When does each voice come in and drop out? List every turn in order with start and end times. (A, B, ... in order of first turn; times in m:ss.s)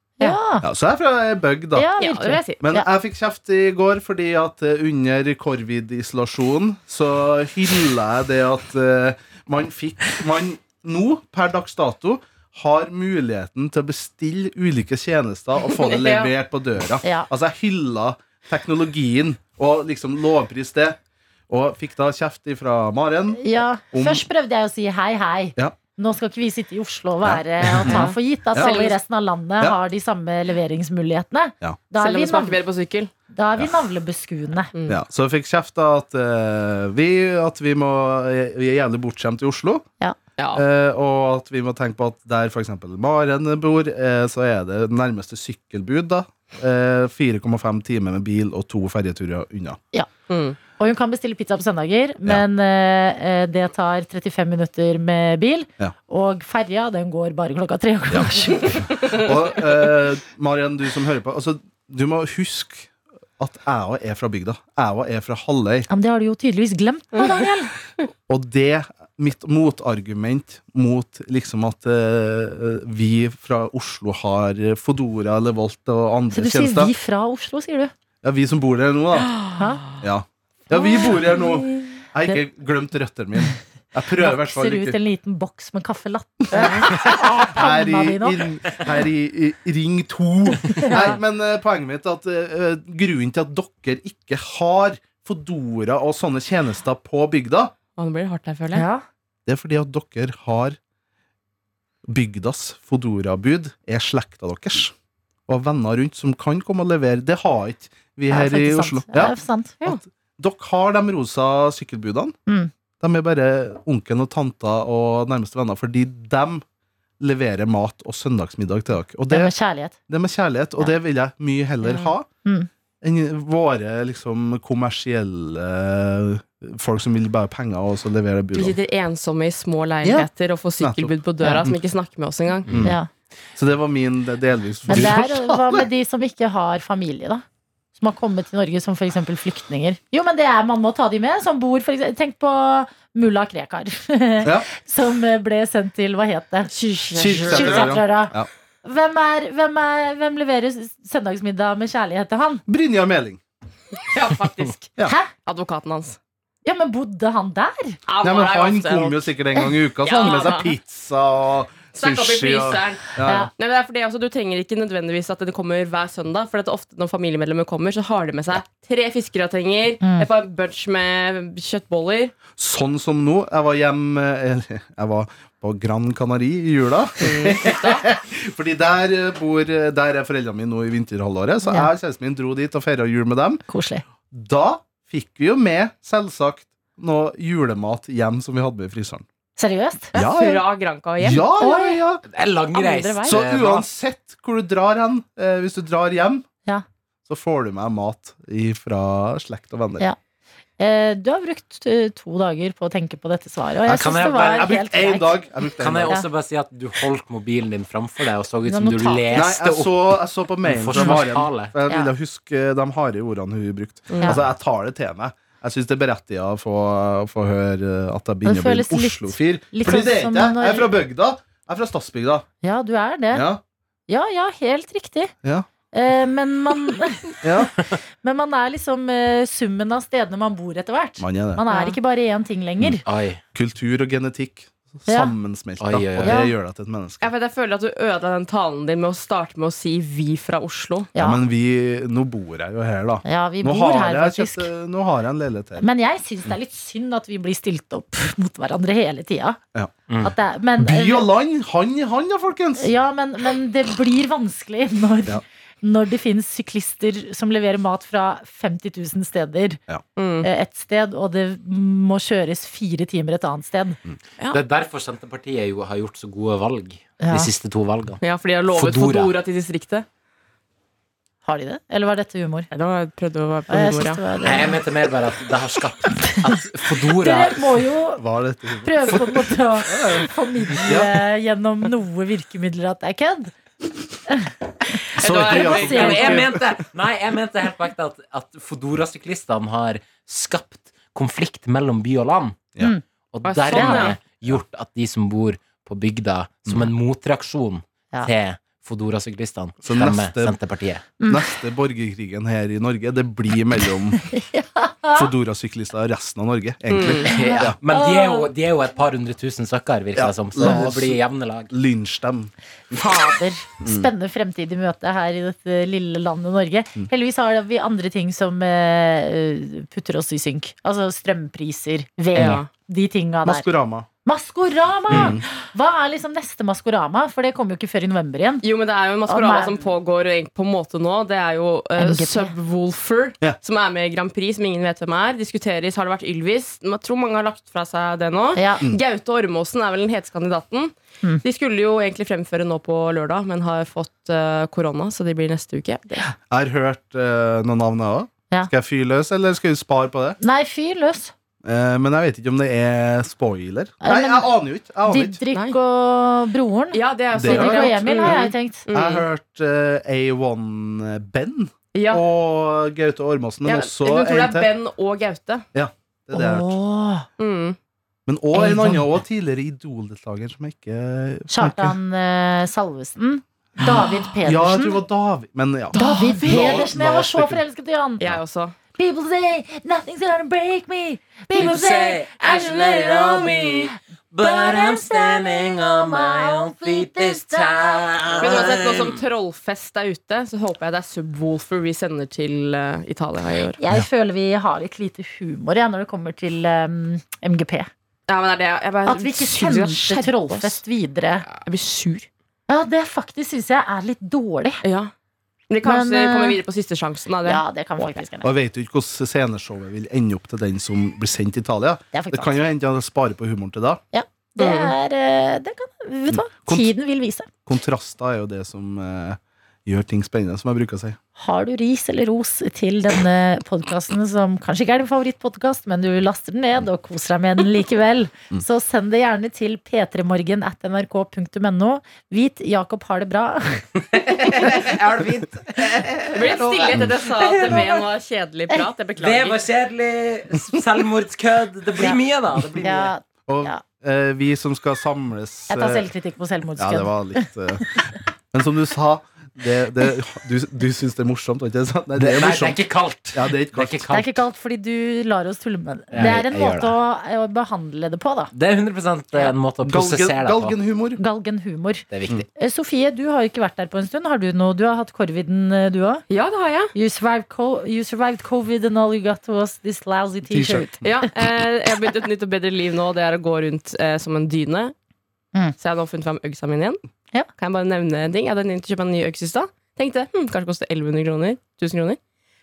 0:00.2-0:00.6 A
0:00.6-0:01.9 B
0:01.8-0:02.9 A
0:02.0-0:02.6 C
0:02.6-0:24.2 B
0:15.6-0:16.3 C
0:23.4-0:32.6 A
0:27.2-0:28.8 B
0:27.9-0:29.0 C
0:32.0-0:33.1 C
0:33.3-0:34.7 A
0:34.7-0:35.0 C
0:34.9-0:39.9 B
0:40.4-0:40.6 C
0:40.5-0:49.8 B
0:50.3-0:50.6 C
0:50.8-0:59.2 A
0:58.1-1:05.9 B
1:05.9-1:07.7 A
1:08.3-1:16.9 B
1:16.3-1:17.9 A
1:18.2-1:19.4 B
1:19.5-1:19.8 A
1:20.0-1:25.0 B
1:20.7-1:22.4 A
1:24.2-1:28.4 A
1:26.5-1:37.7 B
1:30.8-1:31.0 A
1:38.0-1:38.8 C
1:38.7-1:39.0 A
1:39.5-1:40.8 B
1:42.1-1:44.9 B
1:45.5-1:52.4 B
1:48.3-1:50.0 A
1:53.0-1:56.6 B
1:57.2-1:59.5 B
1:59.3-2:00.0 A
2:00.1-2:02.3 B
2:02.4-2:02.7 A
2:03.0-2:08.8 B
2:08.6-2:12.7 C
2:10.0-2:10.3 B
2:10.8-2:11.1 B
2:11.4-2:11.7 A
2:12.7-2:13.0 B
2:12.8-2:13.1 A
2:13.6-2:15.9 B
2:14.9-2:17.4 A
2:18.0-2:26.7 A
2:26.7-2:28.0 C
2:27.2-2:28.5 B
2:27.4-2:32.6 A
2:32.7-2:33.4 B
2:34.1-2:36.2 C
2:36.6-2:38.0 A
2:38.1-2:39.2 C
2:38.2-2:43.5 B
2:40.0-2:40.7 C
2:41.9-2:52.3 C
2:43.2-2:43.5 A
2:50.0-2:50.3 A
2:52.6-3:03.6 B
2:57.2-2:58.0 C
3:03.7-3:04.0 A
3:04.3-3:09.2 B
3:09.6-3:10.2 A
3:10.1-3:10.6 B
3:10.1-3:11.6 C
3:11.2-3:12.2 B
3:11.3-3:12.0 A
3:12.3-3:13.9 D
3:12.7-3:13.4 A
3:13.2-3:16.5 B
3:17.3-3:20.1 B
3:20.8-3:25.4 A
3:23.9-3:24.7 D
3:24.2-3:26.2 B
3:25.8-3:30.1 D
3:28.7-3:29.5 A
3:29.3-3:42.5 B
3:30.6-3:31.7 D
3:34.1-3:34.4 C
3:38.4-3:40.9 A
3:42.6-3:43.5 A
3:43.3-3:43.6 B
3:44.1-3:45.3 A
3:45.9-3:53.0 A
3:47.4-3:47.7 B
3:51.2-3:51.6 B
3:51.7-3:52.0 C
3:53.0-3:53.4 D
3:53.5-3:57.3 B
3:55.1-3:55.3 A
3:55.8-3:56.4 D
3:56.2-3:56.5 A
3:57.2-4:01.1 C
4:01.1-4:01.4 A
4:01.2-4:05.9 B
4:03.2-4:04.7 A
4:05.8-4:09.6 A
4:10.1-4:10.3 D
4:10.2-4:11.3 A
4:10.8-4:12.9 B
4:12.8-4:19.8 A
4:20.2-4:20.5 C
4:20.4-4:24.0 A
4:24.5-4:29.3 D
4:27.2-4:27.5 A
4:28.2-4:30.1 C
4:31.4-4:32.7 A
4:32.7-4:34.2 C
4:33.7-4:34.8 A
4:34.4-4:37.7 D
4:37.1-4:38.2 A
4:38.2-4:41.2 B
4:38.8-4:43.5 A
4:44.3-4:46.4 A
4:45.2-4:46.6 B
4:45.2-4:46.5 C
4:45.5-4:52.7 D
4:53.3-5:01.1 D
4:53.4-4:54.2 C
4:53.7-4:54.1 A
4:59.8-5:00.6 B
5:01.2-5:01.5 A
5:01.3-5:04.2 B
5:04.2-5:05.3 A
5:05.2-5:07.8 B
5:06.9-5:07.3 C
5:07.2-5:11.7 D
5:07.3-5:08.5 A
5:10.2-5:13.0 B
5:12.9-5:23.7 A
5:13.8-5:14.1 B
5:22.4-5:22.7 C
5:23.4-5:24.1 B
5:24.2-5:28.6 A
5:25.1-5:25.4 B
5:28.6-5:46.3 C
5:29.3-5:29.8 A
5:32.0-5:32.5 A
5:38.6-5:38.8 A
5:46.5-5:50.4 B
5:50.4-5:51.3 A
5:51.6-5:55.4 B
5:54.0-5:54.5 A
5:55.1-5:58.9 A
5:56.9-5:59.2 C
5:57.3-6:04.7 B
6:01.9-6:02.2 C
6:03.6-6:05.6 C
6:05.7-6:06.8 B
6:06.3-6:07.3 A
6:07.4-6:07.8 C
6:08.3-6:12.0 B
6:08.5-6:09.0 A
6:11.5-6:15.0 A
6:14.4-6:16.0 B
6:15.9-6:16.8 C
6:15.9-6:18.2 A
6:16.5-6:17.6 B
6:16.5-6:17.0 D
6:18.2-6:18.8 C
6:19.0-6:28.8 A
6:21.5-6:29.2 D
6:28.4-6:33.8 C
6:33.8-6:37.9 A
6:38.3-6:40.8 C
6:39.1-6:41.5 A
6:41.6-6:42.3 C
6:42.7-6:44.8 A
6:44.8-6:45.1 C
6:45.7-6:48.2 C
6:45.8-6:46.6 A
6:47.4-6:48.5 A
6:48.4-6:54.0 B
6:52.1-6:52.6 A
6:54.1-6:57.5 A
6:54.6-6:54.9 C
6:56.3-6:56.9 B
6:57.7-7:01.2 B
7:01.4-7:14.7 A
7:14.1-7:18.0 D
7:16.3-7:19.6 C
7:19.2-7:23.1 D
7:22.0-7:22.2 A
7:22.8-7:23.8 A
7:23.5-7:26.1 B
7:25.7-7:28.0 A
7:26.8-7:32.8 B
7:32.2-7:34.4 D
7:33.3-7:34.1 B
7:34.1-7:38.5 A
7:36.1-7:37.0 D
7:38.5-7:40.8 D
7:39.8-7:41.2 B
7:41.2-7:46.2 A
7:42.1-7:42.5 D
7:46.3-7:46.9 C
7:46.9-7:51.0 A
7:50.5-7:51.1 B
7:51.0-7:54.9 C
7:55.8-7:57.0 C
7:57.6-8:02.2 C